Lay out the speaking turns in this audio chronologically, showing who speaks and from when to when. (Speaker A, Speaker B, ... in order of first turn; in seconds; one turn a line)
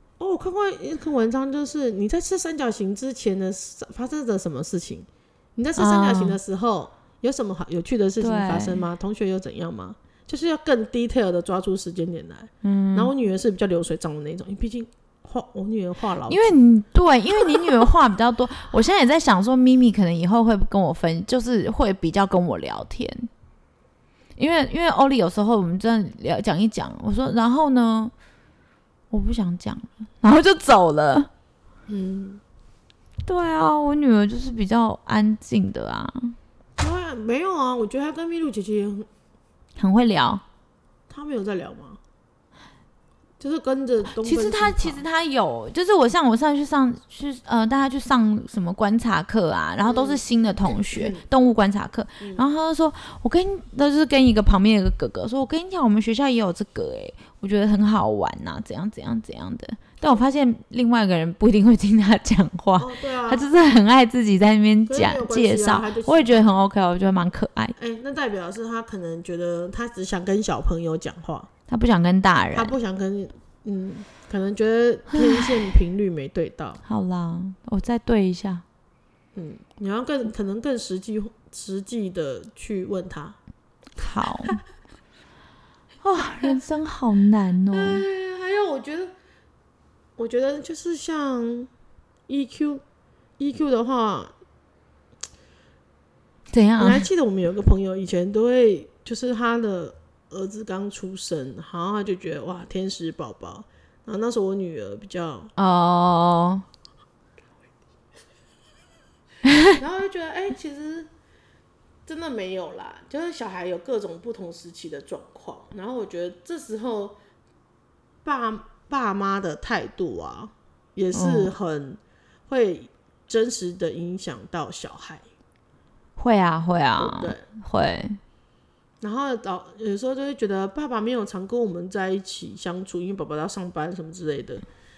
Speaker A: 0.2-16.5
Speaker B: 5.8-6.4
Speaker B: 8.2-8.8
Speaker B: 12.6-13.1
Speaker B: 16.3-23.3
Speaker B: 24.4-28.1
Speaker B: 29.1-31.3
Speaker A: 31.9-32.4
Speaker B: 33.2-36.4
Speaker A: 36.8-39.1
Speaker B: 39.8-40.4
Speaker A: 41.1-42.0
Speaker A: 43.4-45.0
Speaker B: 44.0-67.8
Speaker A: 49.8-50.2
Speaker A: 50.8-51.2
Speaker A: 52.2-52.5
Speaker A: 62.8-63.5
Speaker A: 64.9-66.5
Speaker A: 67.8-71.5
Speaker B: 71.7-72.7
Speaker A: 72.5-76.8
Speaker B: 75.1-75.6
Speaker B: 76.8-78.6
Speaker A: 79.3-83.4
Speaker B: 84.0-84.6
Speaker B: 86.0-88.0
Speaker A: 87.7-89.1
Speaker A: 90.2-91.7
Speaker A: 92.3-92.8
Speaker A: 93.4-94.3
Speaker B: 96.5-97.1
Speaker A: 96.8-105.5
Speaker B: 105.5-106.6
Speaker B: 109.4-109.8
Speaker A: 109.7-111.1
Speaker A: 112.1-117.1
Speaker A: 118.2-125.2
Speaker B: 121.1-121.5
Speaker B: 126.2-128.2
Speaker A: 127.0-127.4
Speaker A: 129.0-134.6